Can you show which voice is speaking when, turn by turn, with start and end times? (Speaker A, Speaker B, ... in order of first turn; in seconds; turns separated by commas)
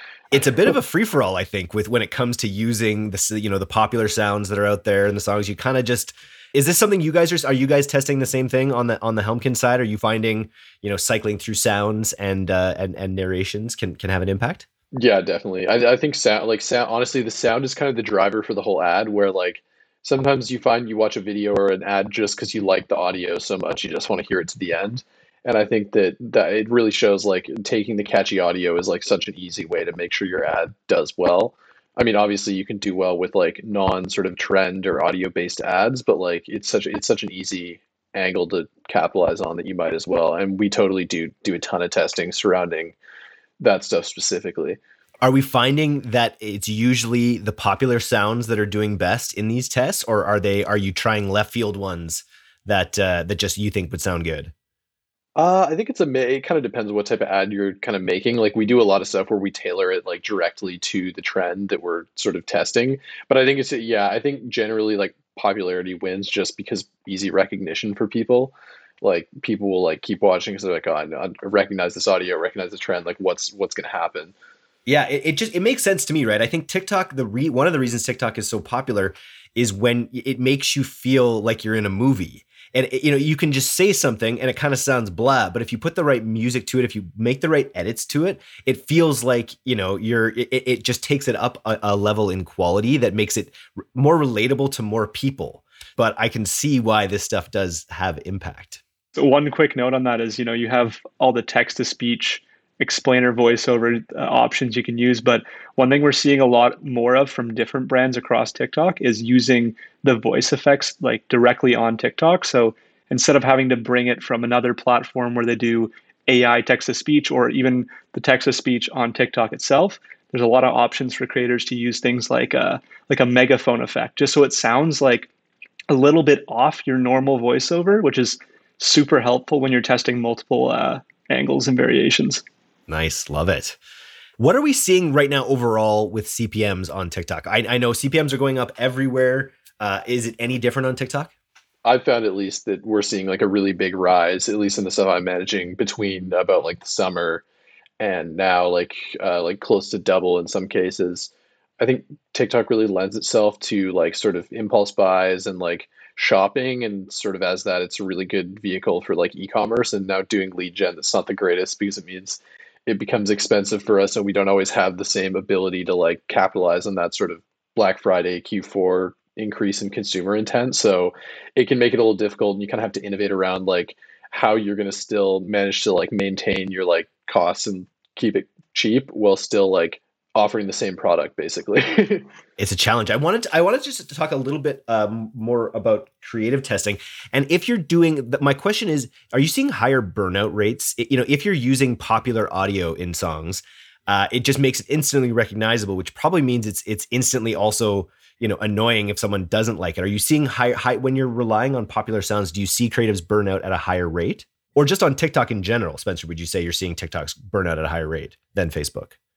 Speaker A: 0.3-14.7, Speaker B: 15.0-43.0, Speaker B: 43.6-44.8, Speaker A: 45.2-54.5, Speaker B: 55.4-74.3, Speaker A: 74.8-98.8, Speaker C: 99.2-125.3, Speaker C: 125.9-132.4, Speaker A: 132.9-133.8, Speaker A: 134.4-141.3, Speaker B: 141.8-147.4, Speaker B: 148.0-182.3, Speaker A: 182.6-209.2